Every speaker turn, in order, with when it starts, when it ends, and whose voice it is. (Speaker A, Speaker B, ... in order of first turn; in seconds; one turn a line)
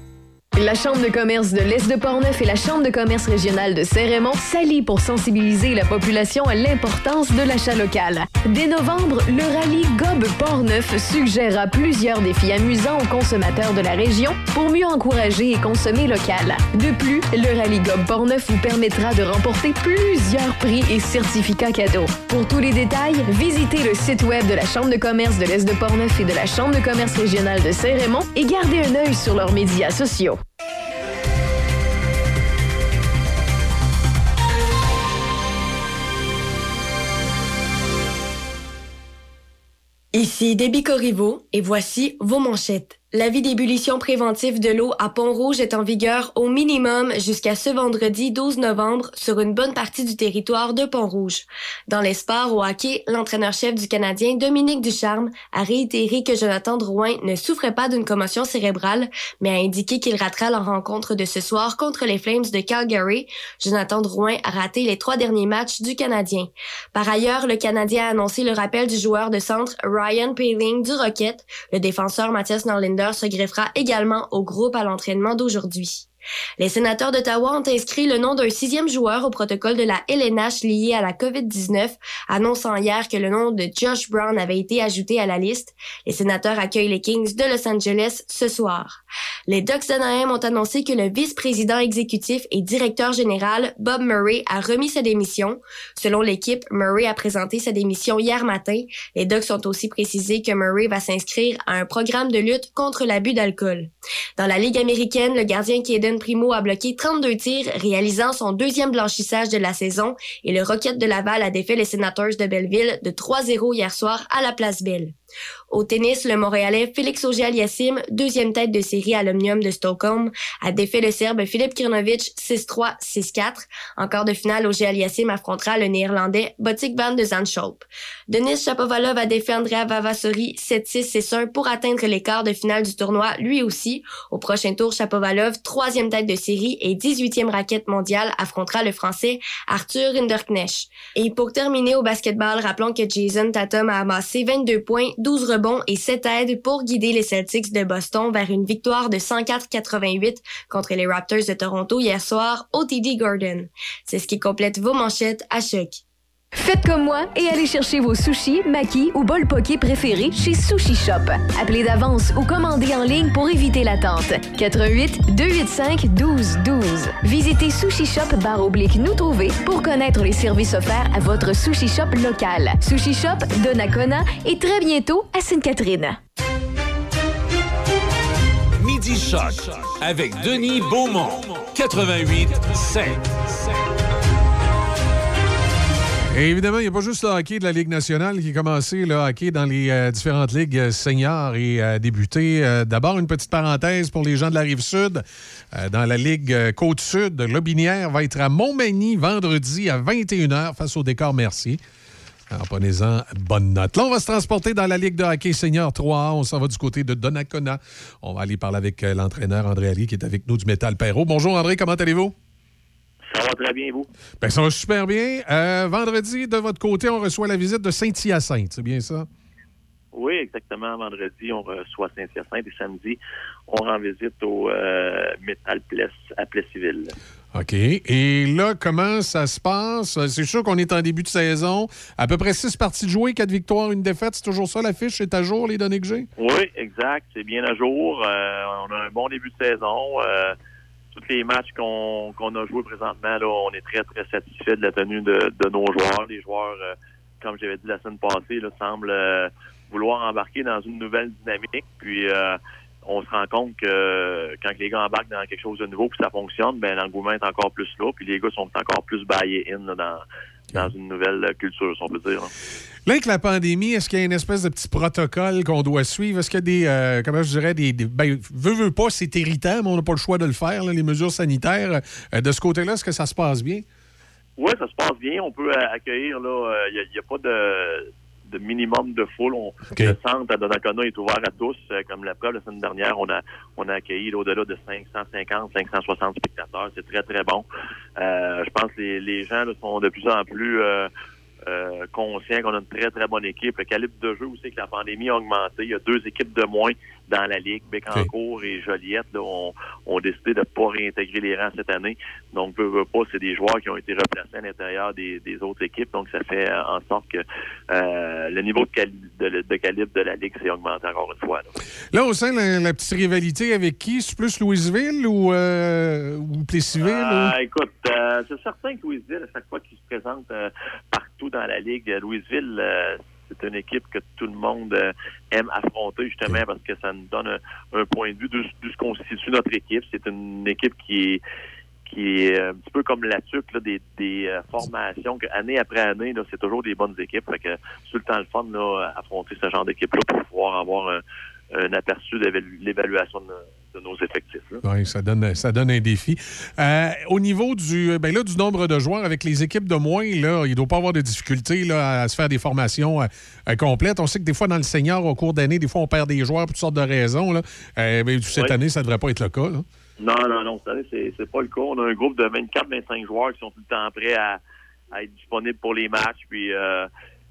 Speaker A: 0.6-30.4
Speaker B: 40.1-76.1
Speaker B: 76.6-115.2
Speaker B: 115.7-156.0
Speaker A: 156.6-176.2
Speaker C: 178.8-183.8
Speaker D: 186.3-201.8
Speaker D: 202.5-212.3
Speaker E: 213.3-214.1
Speaker D: 214.4-219.3
Speaker E: 220.1-223.2
Speaker E: 223.7-227.1
Speaker D: 227.5-236.3
Speaker E: 236.4-240.6
Speaker E: 241.1-262.5
Speaker D: 263.1-273.9
Speaker E: 274.6-287.7
Speaker D: 279.9-280.2
Speaker E: 288.2-291.1
Speaker E: 291.7-311.7
Speaker D: 312.1-317.6
Speaker E: 317.0-331.4
Speaker E: 332.1-341.2
Speaker E: 341.7-344.8
Speaker D: 344.8-359.9
Speaker E: 360.2-364.6
Speaker E: 365.1-367.1